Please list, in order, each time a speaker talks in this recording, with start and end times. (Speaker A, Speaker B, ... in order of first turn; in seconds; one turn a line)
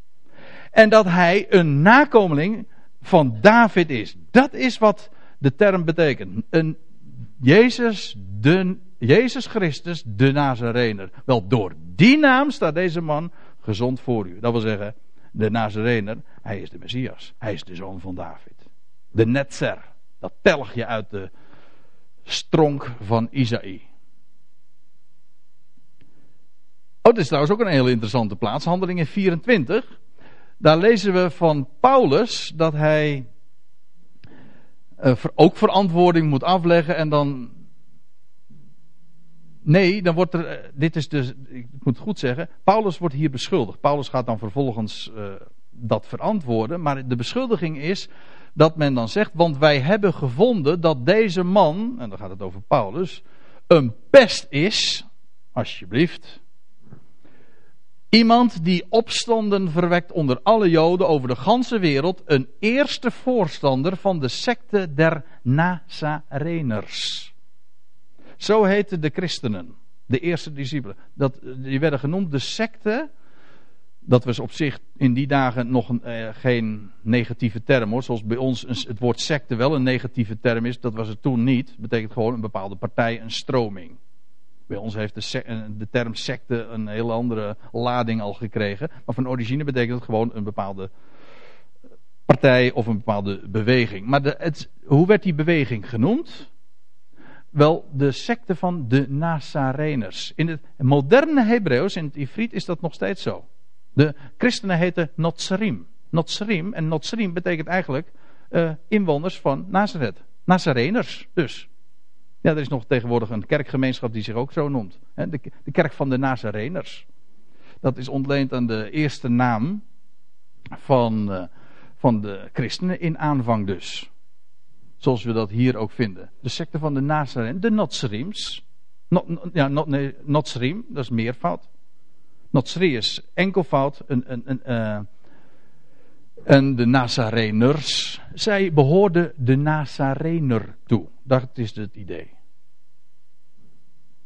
Speaker A: 0.7-6.8
Speaker A: 7.4-18.6
Speaker A: 19.1-21.3
Speaker A: 22.3-23.8
Speaker A: 27.0-29.8
Speaker A: 30.6-33.2
Speaker A: 35.0-37.5
Speaker A: 39.6-55.0
Speaker A: 55.5-56.4
Speaker A: 58.1-67.3
Speaker A: 68.4-73.1
Speaker A: 74.0-84.0
Speaker A: 84.7-90.9
Speaker A: 92.3-96.5
Speaker A: 97.5-111.7
Speaker A: 112.4-117.0
Speaker A: 117.8-119.8
Speaker A: 120.8-124.1
Speaker A: 125.0-131.7
Speaker A: 132.5-135.1
Speaker A: 136.5-142.3